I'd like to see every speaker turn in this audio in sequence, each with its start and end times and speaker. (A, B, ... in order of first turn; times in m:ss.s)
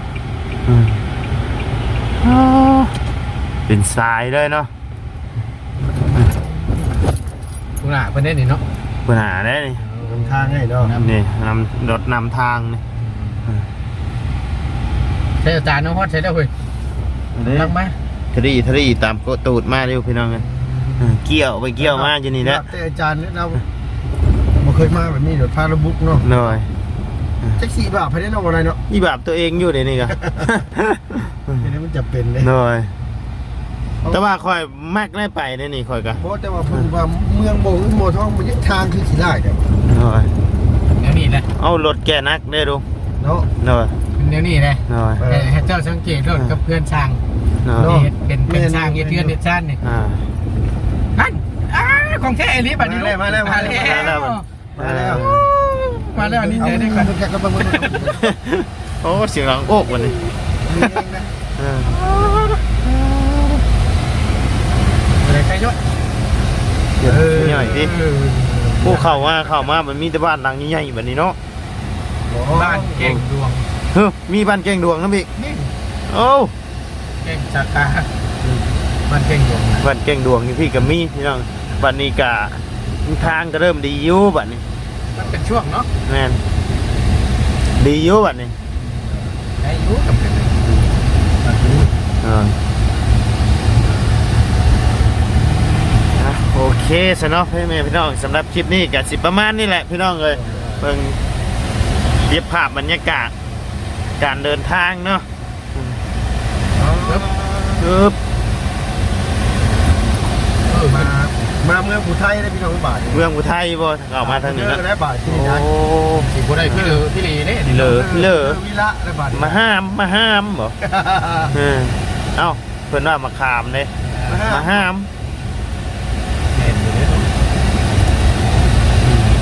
0:00.7-0:01.0 A
0:02.2-0:02.9 A
0:03.7-0:04.7 A
0:07.8-0:08.6 B
0:09.0-0:09.8 A
0:09.8-0:11.1 B
0:10.0-0:10.9 C
0:10.9-0:12.8 A
0:13.0-0:13.4 B
0:15.4-0:16.5 B
0:17.4-0:17.7 A
0:17.4-0:18.0 B
0:18.3-0:20.4 A
0:20.4-0:21.2 C
0:21.0-0:22.6 A
0:21.8-0:23.6 C
0:24.6-0:26.3 C
0:26.2-0:26.7 A
0:27.6-0:28.8 C
0:28.9-0:31.6 A
0:30.1-0:30.5 C
0:31.6-0:32.5 C
0:32.4-0:32.9 A
0:34.1-0:36.2 A
0:36.2-0:39.6 C
0:39.8-0:40.3 A
0:41.0-0:41.5 B
0:41.6-0:42.8 A
0:43.2-0:43.5 C
0:43.6-0:43.9 A
0:44.2-0:47.2 B
0:44.9-0:45.2 A
0:45.2-0:45.7 C
0:47.6-0:48.0 A
0:47.7-0:49.4 C
0:47.8-0:49.8 B
0:49.8-0:50.2 A
0:51.1-0:54.4 B
0:52.8-0:54.2 C
0:53.6-0:55.5 A
0:54.7-0:55.3 C
0:55.1-0:58.2 B
0:56.1-0:58.2 C
0:58.2-1:00.2 A
1:00.6-1:01.3 C
1:01.6-1:02.3 A
1:01.9-1:02.6 B
1:02.8-1:03.6 A
1:05.2-1:05.8 B
1:07.0-1:07.9 A
1:07.0-1:07.8 C
1:07.4-1:09.5 B
1:08.8-1:11.4 A
1:12.3-1:13.1 C
1:12.5-1:13.7 B
1:13.9-1:15.3 A
1:15.4-1:15.7 C
1:16.1-1:16.5 A
1:17.2-1:18.1 B
1:18.4-1:18.7 C
1:19.1-1:19.8 B
1:19.8-1:24.6 A
1:25.1-1:25.9 B
1:26.0-1:26.4 A
1:27.8-1:28.5 A
1:28.8-1:29.3 C
1:29.6-1:30.6 B
1:31.4-1:31.9 C
1:32.2-1:32.6 A
1:36.2-1:41.2 A
1:40.3-1:40.8 C
1:42.2-1:43.3 A
1:44.2-1:46.0 A
1:46.7-1:47.9 C
1:47.8-1:48.2 A
1:50.7-1:51.1 B
1:50.8-1:53.2 C
1:53.1-1:56.9 A
1:54.2-1:55.7 C
1:56.1-1:58.0 B
1:57.6-1:58.6 A
1:57.8-1:59.6 C
1:59.3-2:00.8 A
2:00.8-2:01.6 C
2:01.5-2:03.9 A
2:04.0-2:04.5 B
2:04.2-2:04.9 C
2:04.4-2:05.1 A
2:06.5-2:07.3 B